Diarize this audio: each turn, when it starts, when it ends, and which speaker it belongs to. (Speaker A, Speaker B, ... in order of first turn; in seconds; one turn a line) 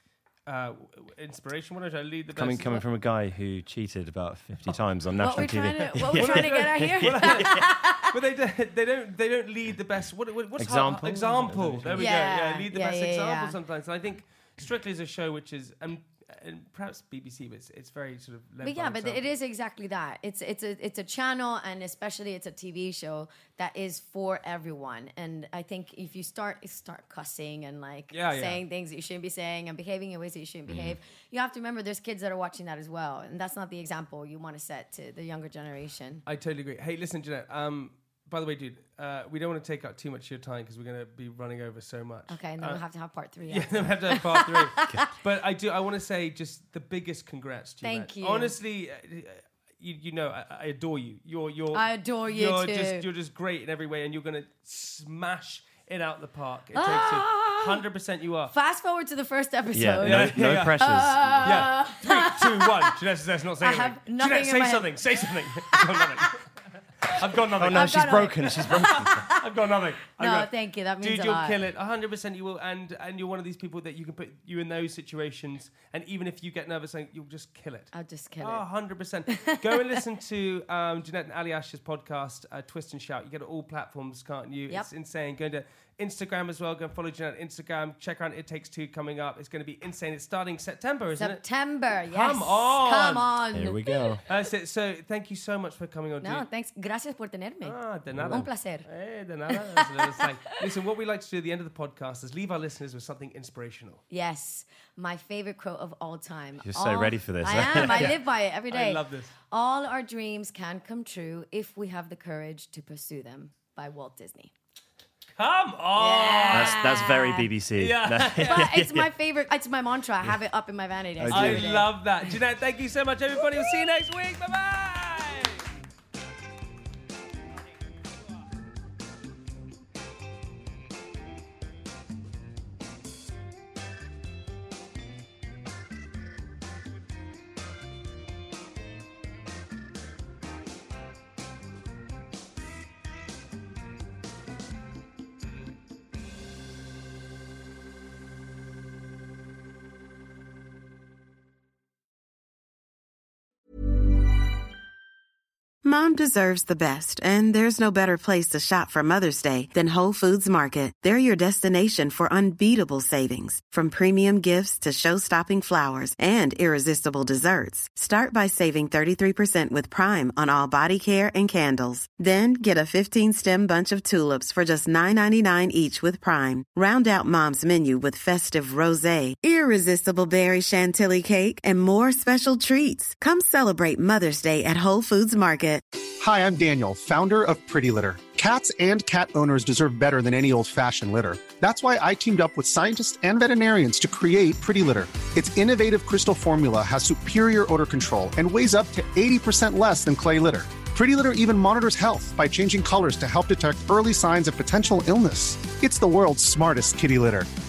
Speaker A: 0.4-2.8
Speaker B: 2.3-7.7
Speaker C: 5.2-8.1
Speaker A: 6.1-19.3
Speaker B: 10.6-12.1
Speaker C: 11.9-13.6
Speaker C: 18.6-36.2
Speaker A: 28.1-28.6
Speaker B: 30.7-31.0
Speaker A: 36.2-42.8
Speaker C: 42.3-45.1
Speaker A: 43.5-58.5
Speaker C: 47.8-48.5
Speaker C: 51.7-53.1
Speaker C: 56.7-57.8
Speaker C: 58.5-62.8
Speaker B: 59.7-61.7
Speaker A: 60.0-66.5
Speaker C: 63.6-65.2
Speaker A: 67.0-91.4
Speaker B: 67.5-69.2
Speaker C: 67.7-69.4
Speaker C: 70.1-71.6
Speaker C: 77.9-78.6
Speaker C: 79.3-80.0
Speaker C: 91.2-94.0
Speaker A: 92.0-93.3
Speaker B: 93.5-94.2
Speaker A: 94.2-96.4
Speaker C: 96.2-98.9
Speaker A: 97.6-104.0
Speaker B: 98.1-98.5
Speaker C: 99.5-100.2
Speaker C: 104.1-114.5
Speaker B: 106.6-108.2
Speaker A: 107.6-109.3
Speaker A: 115.3-117.0
Speaker C: 116.0-117.5
Speaker B: 116.5-119.1
Speaker A: 117.8-118.7
Speaker C: 118.3-121.9
Speaker B: 121.2-121.7
Speaker A: 121.3-125.7
Speaker D: 155.8-185.8
Speaker E: 186.2-207.5